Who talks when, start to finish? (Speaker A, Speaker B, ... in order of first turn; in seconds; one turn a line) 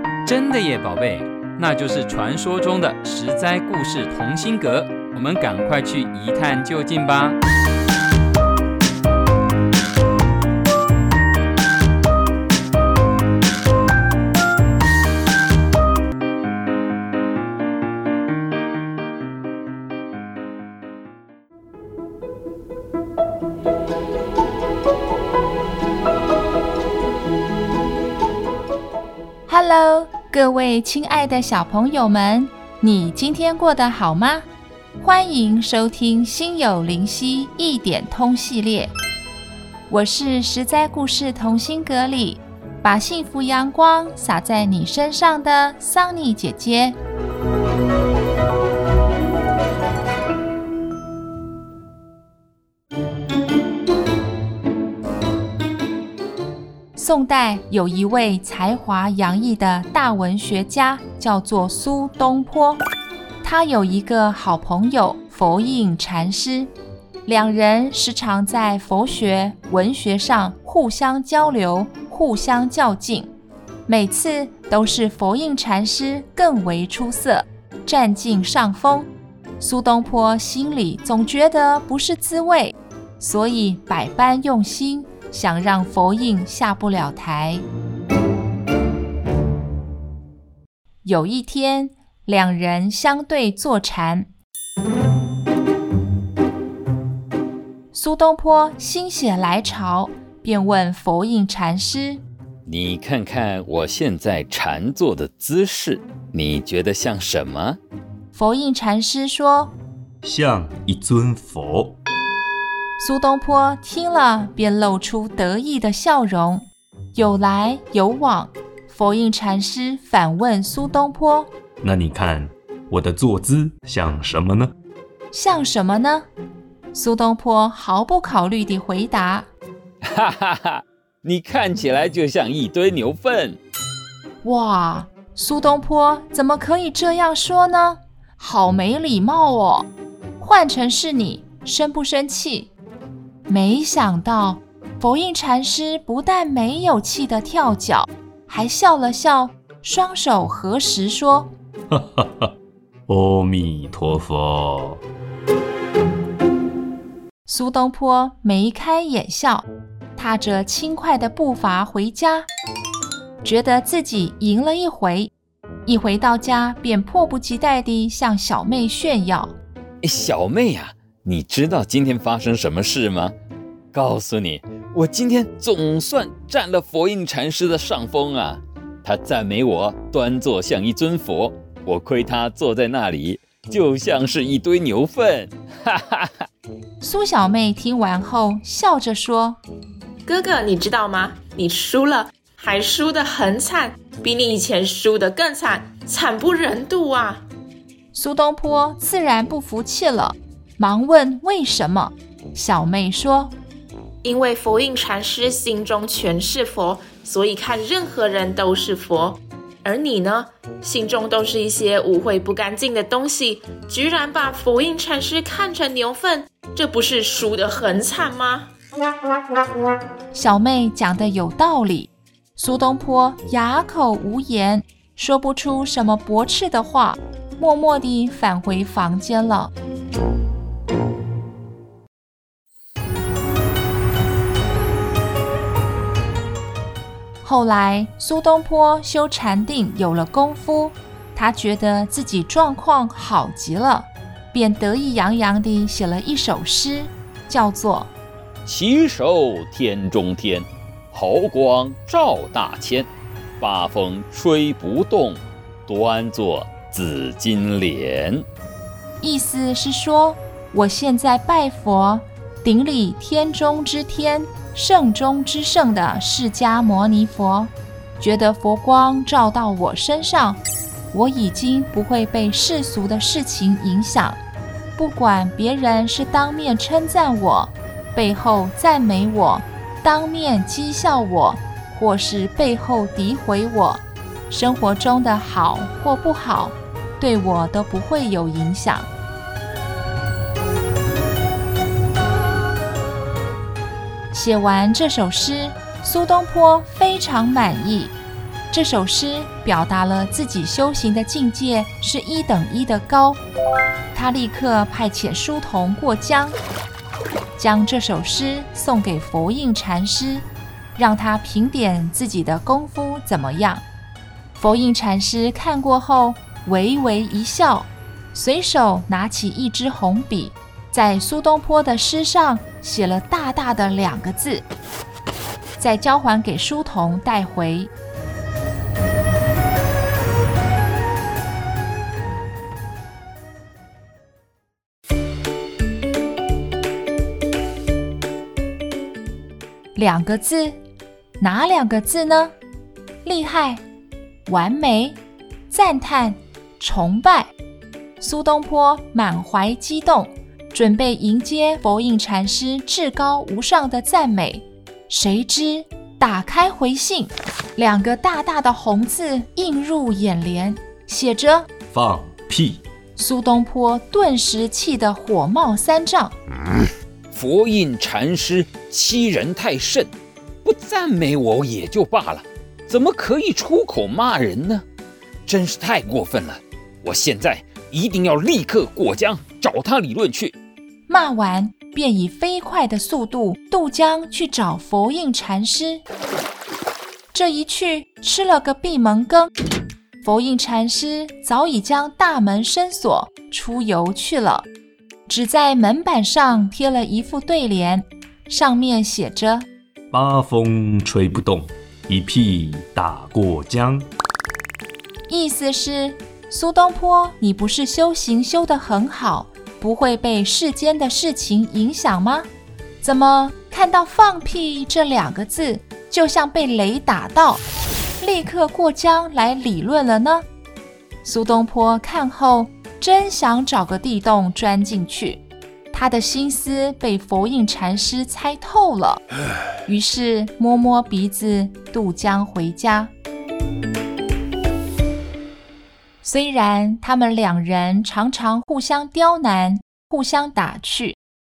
Speaker A: 0.3-7.4
Speaker B: 29.5-34.5
Speaker B: 35.0-38.9
Speaker B: 39.9-47.0
Speaker B: 57.0-62.8
Speaker B: 63.4-66.7
Speaker B: 67.3-73.3
Speaker B: 73.9-79.1
Speaker B: 79.6-87.7
Speaker B: 91.0-94.3
Speaker B: 97.9-102.2
Speaker C: 102.7-107.8
Speaker B: 108.3-109.7
Speaker D: 110.2-112.0
Speaker B: 113.0-121.5
Speaker D: 121.8-124.7
Speaker B: 125.3-126.3
Speaker B: 126.9-129.5
Speaker C: 130.1-133.6
Speaker B: 134.4-142.7
Speaker B: 143.5-151.5
Speaker D: 151.9-152.5
Speaker D: 153.1-155.0
Speaker B: 157.5-162.5
Speaker B: 163.4-165.3
Speaker B: 165.9-169.6
Speaker C: 170.0-173.3
Speaker C: 173.9-186.3
Speaker B: 187.0-189.6
Speaker E: 190.3-197.4
Speaker B: 198.1-203.6
Speaker E: 204.2-218.7
Speaker B: 220.3-229.7
Speaker B: 237.4-248.1
Speaker C: 248.7-253.1
Speaker C: 253.6-258.5
Speaker B: 259.2-270.6
Speaker B: 271.1-274.4
Speaker B: 275.0-289.1
Speaker B: 294.3-298.1
Speaker B: 298.7-303.4
Speaker B: 304.1-306.6
Speaker B: 307.6-313.8
Speaker B: 314.6-324.6
Speaker B: 325.8-327.9
Speaker B: 339.9-340.8
Speaker B: 341.4-342.5
Speaker B: 343.2-343.8
Speaker B: 344.5-347.5
Speaker B: 348.2-361.7
Speaker D: 361.9-362.8
Speaker B: 363.2-366.4
Speaker C: 367.3-370.1
Speaker C: 370.6-374.8
Speaker C: 375.5-380.5
Speaker B: 381.1-386.0
Speaker B: 387.3-389.5
Speaker B: 390.2-394.7
Speaker B: 395.3-399.7
Speaker D: 400.1-404.1
Speaker B: 405.3-412.5
Speaker B: 413.0-417.6
Speaker B: 418.2-420.4
Speaker B: 421.2-429.2
Speaker B: 429.9-433.1
Speaker B: 436.2-441.2